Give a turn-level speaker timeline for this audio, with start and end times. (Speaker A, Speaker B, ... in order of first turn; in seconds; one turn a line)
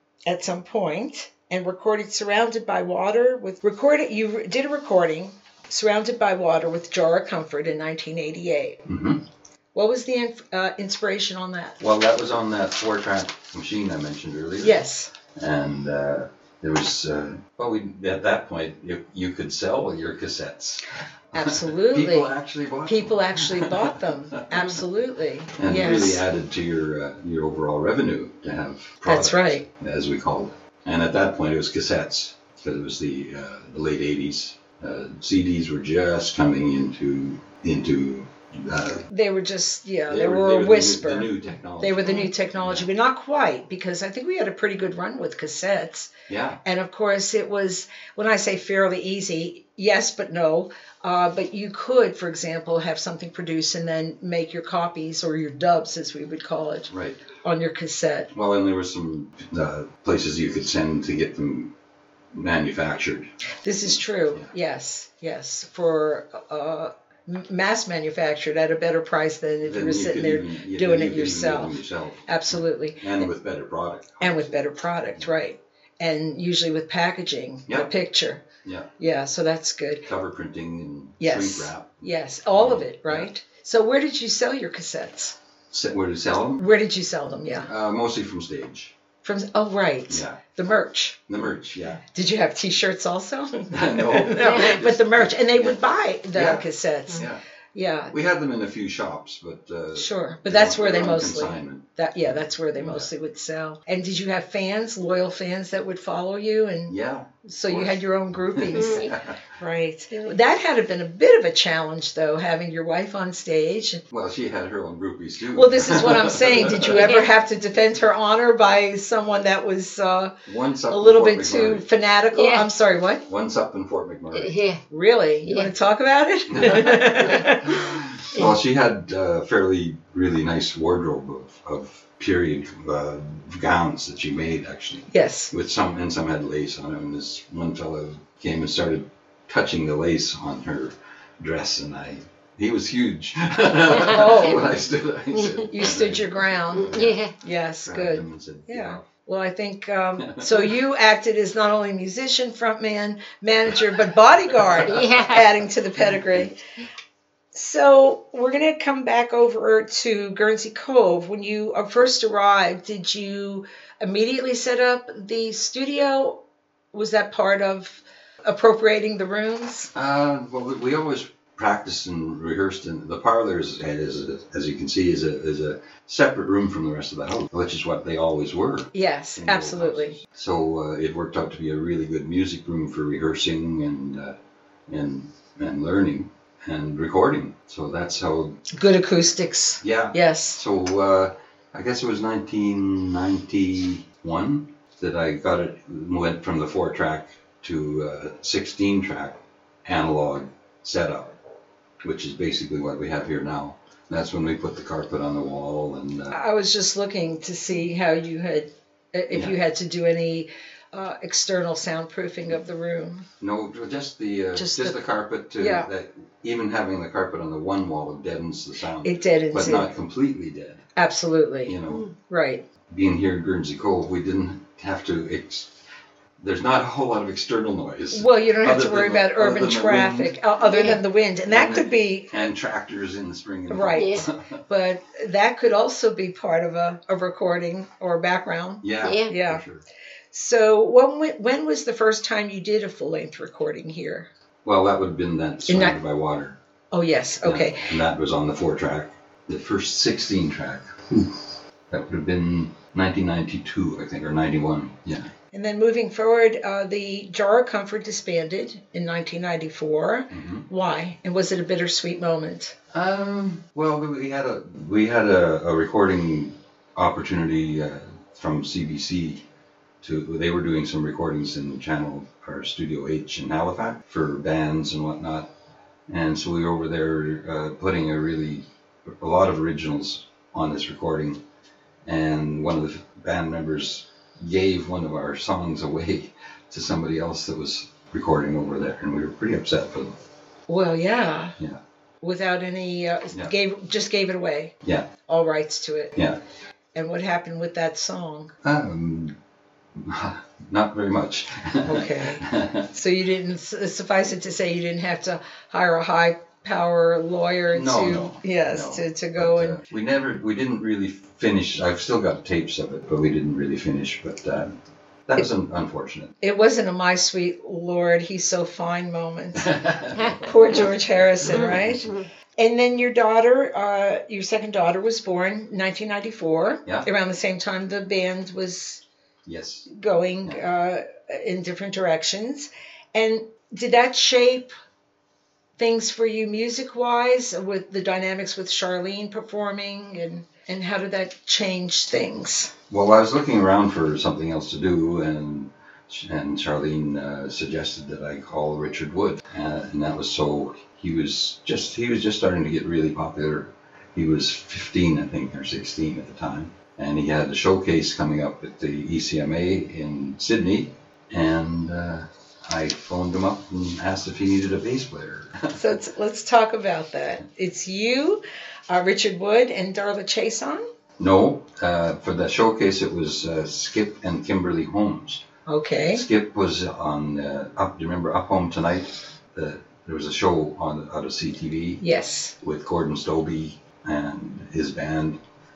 Speaker A: 0.2-8.8
Speaker B: 8.9-9.2
Speaker A: 9.7-11.8
Speaker B: 11.8-24.8
Speaker A: 14.6-15.1
Speaker A: 21.3-22.3
Speaker A: 22.9-26.2
Speaker B: 25.6-39.1
Speaker A: 29.0-29.6
Speaker A: 39.1-46.1
Speaker B: 40.1-42.9
Speaker B: 46.3-46.6
Speaker A: 46.6-56.9
Speaker B: 56.9-57.2
Speaker A: 57.4-58.3
Speaker B: 58.3-61.7
Speaker B: 62.3-63.3
Speaker A: 63.6-73.3
Speaker B: 63.9-64.5
Speaker B: 69.6-74.5
Speaker A: 74.2-78.4
Speaker B: 77.7-77.9
Speaker B: 78.6-78.9
Speaker A: 79.0-80.0
Speaker B: 80.0-83.3
Speaker A: 81.2-85.3
Speaker B: 85.7-86.6
Speaker A: 86.6-87.7
Speaker B: 87.7-88.9
Speaker A: 89.2-91.3
Speaker B: 90.1-90.4
Speaker B: 91.3-92.0
Speaker A: 92.1-98.1
Speaker B: 93.7-95.8
Speaker C: 94.4-94.8
Speaker B: 96.3-97.4
Speaker B: 98.1-101.8
Speaker A: 99.9-114.0
Speaker B: 102.7-103.1
Speaker B: 106.9-109.4
Speaker C: 108.8-109.2
Speaker C: 110.1-110.4
Speaker B: 114.1-117.1
Speaker A: 115.5-120.3
Speaker C: 116.9-117.3
Speaker B: 120.5-121.8
Speaker A: 120.9-123.2
Speaker C: 122.3-122.7
Speaker B: 123.2-124.5
Speaker C: 124.3-124.8
Speaker A: 124.9-127.8
Speaker C: 125.4-125.7
Speaker B: 126.5-147.3
Speaker A: 135.1-135.5
Speaker A: 143.9-144.6
Speaker C: 145.3-145.7
Speaker A: 145.7-156.6
Speaker C: 146.8-147.3
Speaker B: 147.8-149.1
Speaker B: 150.2-150.7
Speaker B: 154.5-155.4
Speaker C: 154.8-155.5
Speaker B: 156.1-156.4
Speaker A: 157.5-166.4
Speaker A: 166.9-169.9
Speaker B: 169.9-184.3
Speaker A: 178.9-180.2
Speaker B: 184.9-188.6
Speaker A: 188.7-190.6
Speaker B: 189.8-201.3
Speaker B: 202.0-206.4
Speaker A: 206.3-213.2
Speaker B: 209.3-209.6
Speaker B: 213.4-220.8
Speaker A: 214.6-215.0
Speaker A: 215.6-215.9
Speaker A: 219.0-219.9
Speaker A: 220.9-222.6
Speaker B: 221.6-222.1
Speaker B: 222.9-225.7
Speaker B: 226.4-230.4
Speaker A: 228.1-232.3
Speaker C: 230.6-231.0
Speaker B: 231.5-234.6
Speaker A: 233.7-239.6
Speaker C: 233.9-234.3
Speaker B: 238.8-239.8
Speaker C: 239.0-239.3
Speaker A: 240.3-244.3
Speaker B: 244.6-246.6
Speaker A: 245.7-246.0
Speaker A: 246.9-248.0
Speaker B: 247.4-251.4
Speaker B: 251.9-255.3
Speaker A: 255.5-262.7
Speaker B: 260.3-260.6
Speaker B: 262.9-269.4
Speaker B: 270.0-275.5
Speaker B: 276.1-281.4
Speaker B: 282.0-290.1
Speaker A: 290.7-291.6
Speaker A: 292.2-294.7
Speaker A: 295.3-296.2
Speaker A: 296.9-298.5
Speaker B: 298.6-299.4
Speaker B: 299.9-302.9
Speaker A: 301.8-309.8
Speaker B: 307.7-314.8
Speaker B: 315.3-316.3
Speaker A: 316.4-319.7
Speaker B: 319.6-320.9
Speaker C: 320.1-320.5
Speaker A: 320.4-329.0
Speaker B: 321.4-322.1
Speaker C: 321.5-322.2
Speaker B: 329.4-329.9
Speaker A: 329.9-334.7
Speaker A: 335.8-342.7
Speaker B: 342.9-365.8
Speaker A: 365.7-370.8
Speaker B: 371.2-375.4
Speaker A: 375.7-376.2
Speaker B: 376.1-382.0
Speaker A: 382.0-382.5
Speaker B: 382.6-385.4